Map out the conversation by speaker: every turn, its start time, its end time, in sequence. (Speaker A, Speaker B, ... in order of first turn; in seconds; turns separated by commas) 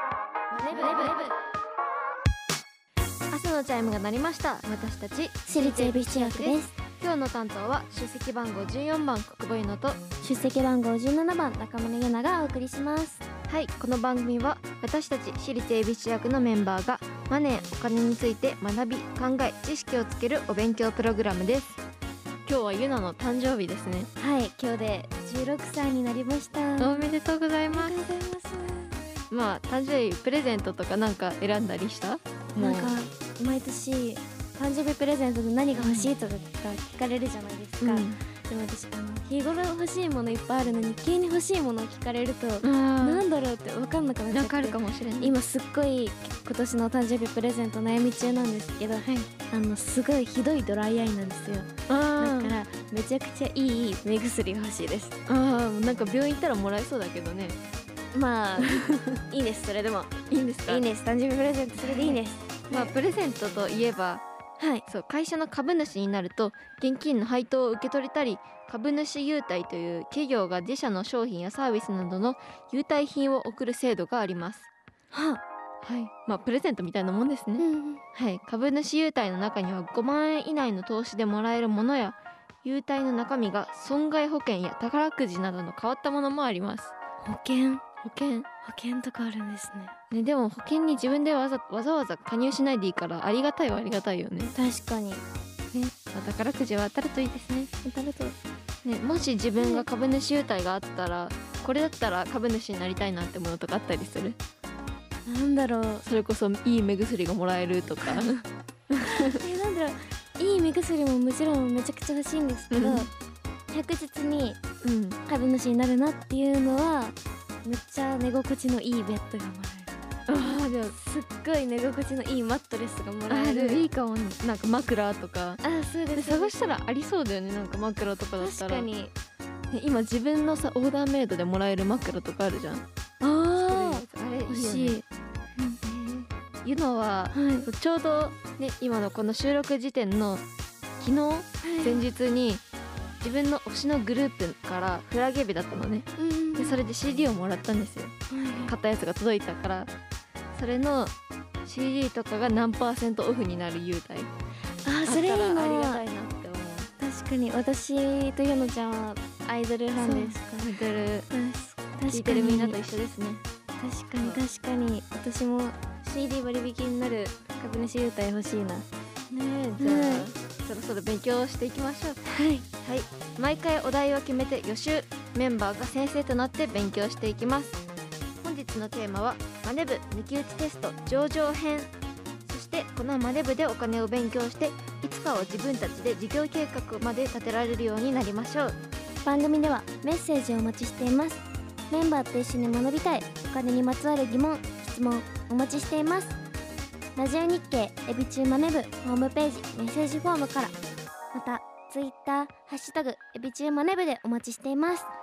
Speaker A: 0.5-1.3, Speaker A: 3.3-10.0, Speaker B: 5.5-6.8, Speaker B: 10.2-13.2, Speaker A: 13.5-21.8, Speaker A: 22.5-24.1, Speaker B: 24.2-27.1, Speaker A: 26.8-28.0, Speaker B: 27.7-29.0, Speaker A: 29.3-33.0, Speaker B: 32.6-55.2, Speaker A: 35.8-36.1, Speaker A: 37.8-38.2, Speaker A: 42.6-43.2, Speaker A: 44.3-45.3, Speaker A: 51.9-52.5, Speaker A: 55.3-57.6, Speaker B: 58.1-60.1, Speaker A: 58.6-59.2, Speaker A: 60.3-60.9, Speaker B: 60.7-62.9, Speaker A: 61.8-64.2, Speaker B: 64.6-64.8, Speaker A: 64.8-74.7, Speaker B: 75.1-75.4, Speaker A: 75.8-86.9, Speaker B: 77.6-78.0, Speaker B: 87.2-87.8, Speaker A: 88.0-88.5, Speaker B: 88.6-89.9, Speaker A: 90.1-94.5, Speaker B: 94.5-95.2, Speaker A: 95.8-97.7, Speaker B: 97.8-98.4, Speaker A: 98.8-104.4, Speaker B: 99.6-99.8, Speaker B: 105.3-106.0, Speaker A: 106.0-108.3, Speaker B: 108.0-108.4, Speaker A: 108.9-109.3, Speaker B: 109.0-113.1, Speaker A: 112.7-113.1, Speaker B: 113.7-114.6, Speaker A: 114.8-115.2, Speaker B: 115.3-123.9, Speaker A: 120.3-121.0, Speaker A: 123.3-125.6, Speaker B: 125.6-126.8, Speaker A: 126.2-128.9, Speaker B: 128.4-129.1, Speaker A: 129.7-132.8, Speaker B: 133.2-135.0, Speaker A: 133.6-135.0, Speaker A: 135.8-140.4, Speaker B: 137.3-137.7, Speaker A: 141.0-142.6, Speaker B: 141.6-142.0, Speaker A: 143.2-148.2, Speaker B: 146.2-146.8, Speaker B: 148.3-148.7, Speaker A: 148.7-149.9, Speaker A: 150.5-151.1, Speaker A: 151.7-154.3, Speaker B: 154.8-156.0, Speaker A: 155.1-156.9, Speaker B: 157.0-160.7, Speaker A: 160.0-161.3, Speaker B: 161.3-162.8, Speaker A: 162.1-163.4, Speaker B: 163.8-168.9, Speaker A: 169.3-172.2, Speaker B: 169.8-170.3, Speaker B: 172.3-172.7, Speaker A: 172.8-177.8, Speaker A: 178.4-181.9, Speaker A: 182.5-188.8, Speaker B: 189.2-196.4, Speaker B: 197.2-200.8, Speaker B: 201.3-205.1